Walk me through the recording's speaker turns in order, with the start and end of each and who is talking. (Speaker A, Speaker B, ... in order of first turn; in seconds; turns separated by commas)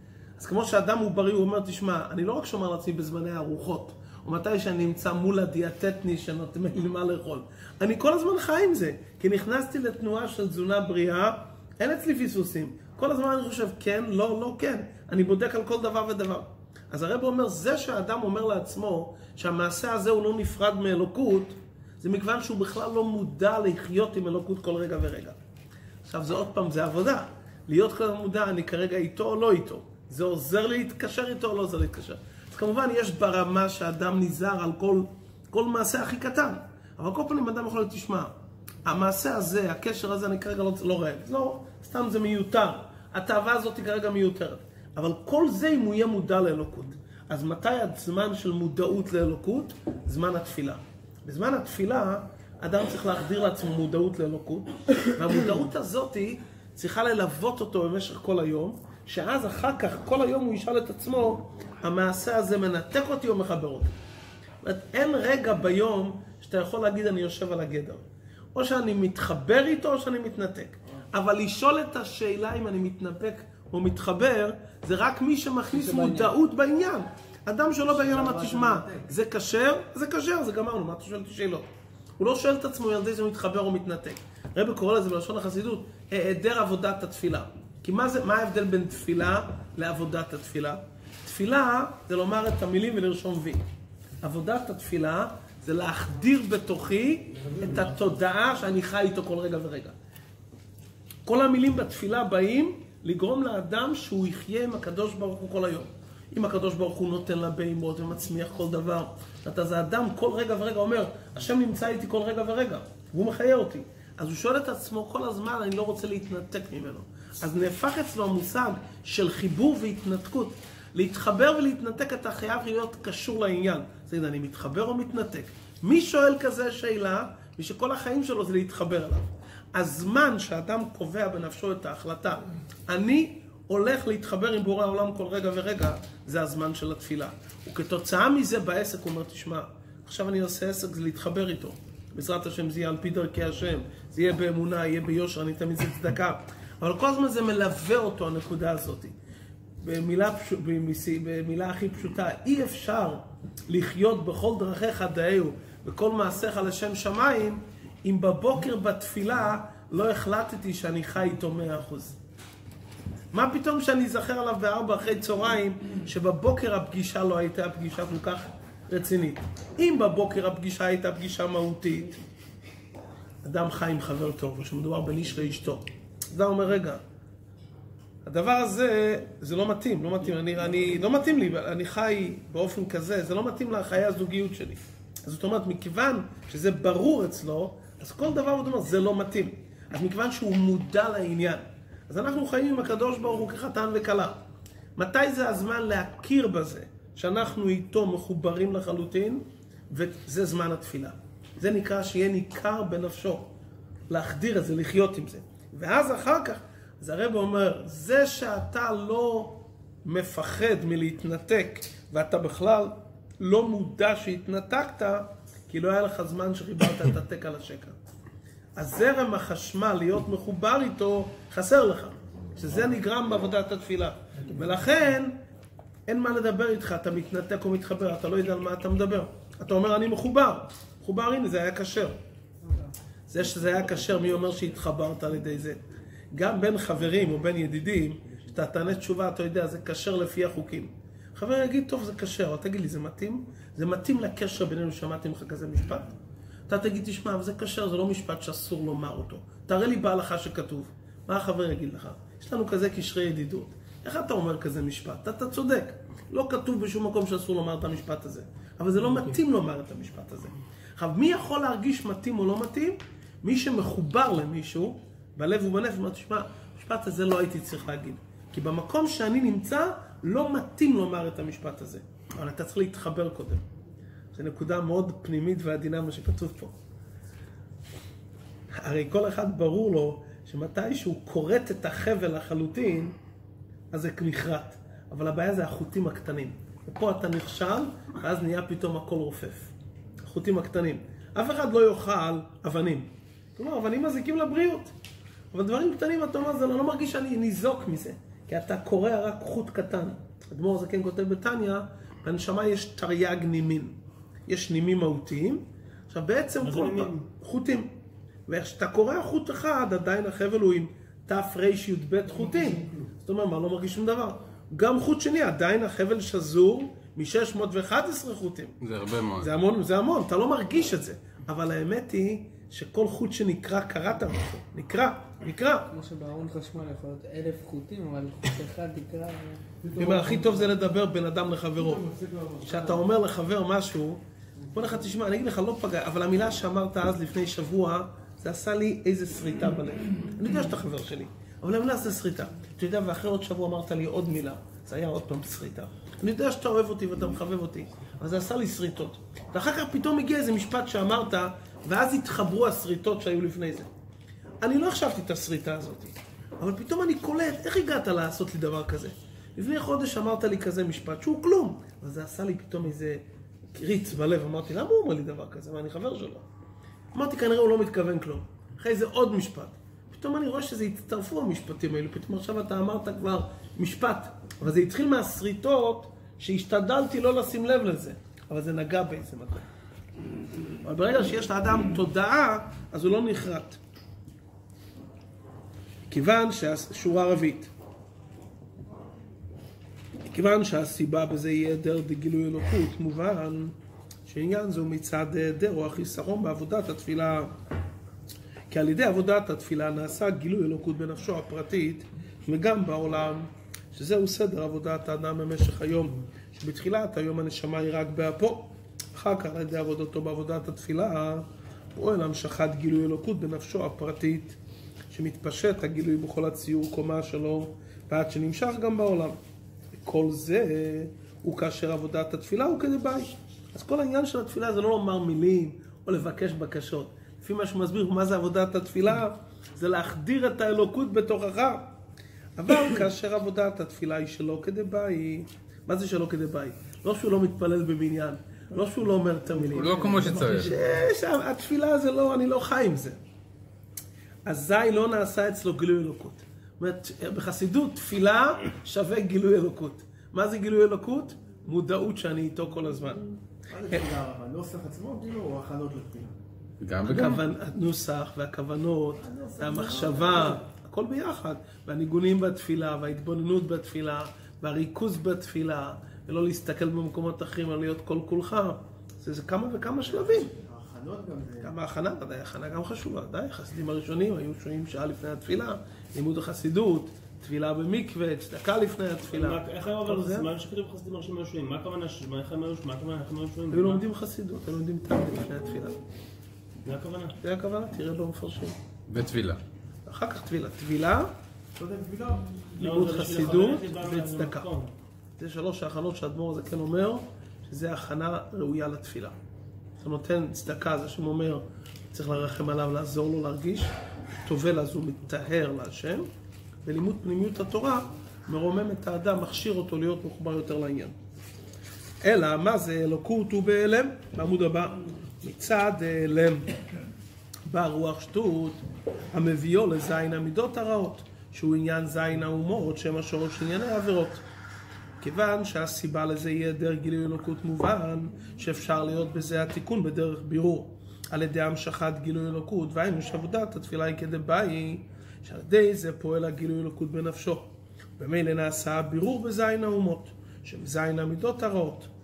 Speaker A: 0.4-25.4, Speaker A: 26.0-38.3, Speaker A: 38.9-63.9, Speaker A: 64.6-68.0, Speaker A: 68.5-81.7, Speaker B: 75.7-76.3, Speaker A: 82.2-93.6, Speaker A: 94.2-99.9, Speaker A: 101.2-149.1, Speaker A: 149.8-162.2, Speaker A: 163.3-172.1, Speaker A: 173.4-177.0, Speaker A: 178.2-194.4, Speaker A: 195.0-203.5, Speaker A: 204.1-217.9, Speaker A: 218.8-225.3, Speaker A: 226.1-232.2, Speaker A: 233.3-235.8, Speaker A: 236.3-246.1, Speaker A: 246.7-273.6, Speaker A: 274.3-276.7, Speaker A: 278.7-283.1, Speaker A: 283.9-289.7, Speaker A: 290.2-294.9, Speaker A: 295.5-303.9, Speaker A: 304.5-307.9, Speaker C: 306.6-307.2, Speaker A: 308.5-318.7, Speaker D: 318.8-319.5, Speaker A: 319.4-325.9, Speaker B: 325.9-329.6, Speaker A: 329.9-332.1, Speaker E: 330.0-330.4, Speaker E: 332.1-332.6, Speaker A: 332.6-334.2, Speaker A: 334.7-353.9, Speaker A: 354.6-363.2, Speaker A: 363.7-366.4, Speaker A: 367.1-379.6, Speaker A: 380.8-383.8, Speaker A: 386.1-387.7, Speaker A: 390.3-393.7, Speaker A: 394.2-397.5, Speaker A: 398.7-414.6, Speaker A: 415.1-419.4, Speaker A: 419.9-431.9, Speaker A: 432.6-443.2, Speaker D: 439.8-440.7, Speaker A: 444.4-453.3, Speaker E: 453.7-456.3, Speaker D: 456.8-457.4, Speaker A: 457.0-470.5, Speaker E: 459.3-460.5, Speaker E: 470.6-471.6, Speaker A: 471.6-480.5, Speaker C: 479.3-484.0, Speaker A: 483.7-486.0, Speaker C: 486.8-487.4, Speaker A: 487.4-488.8, Speaker D: 489.1-489.6, Speaker A: 490.1-491.3, Speaker C: 491.8-492.2, Speaker C: 492.8-494.9, Speaker A: 492.8-494.7, Speaker A: 495.4-499.3, Speaker A: 500.0-503.9, Speaker A: 504.4-506.3, Speaker A: 506.8-511.1, Speaker A: 512.2-516.7, Speaker A: 517.7-518.8, Speaker A: 519.3-524.4, Speaker A: 525.2-537.7, Speaker A: 538.2-542.1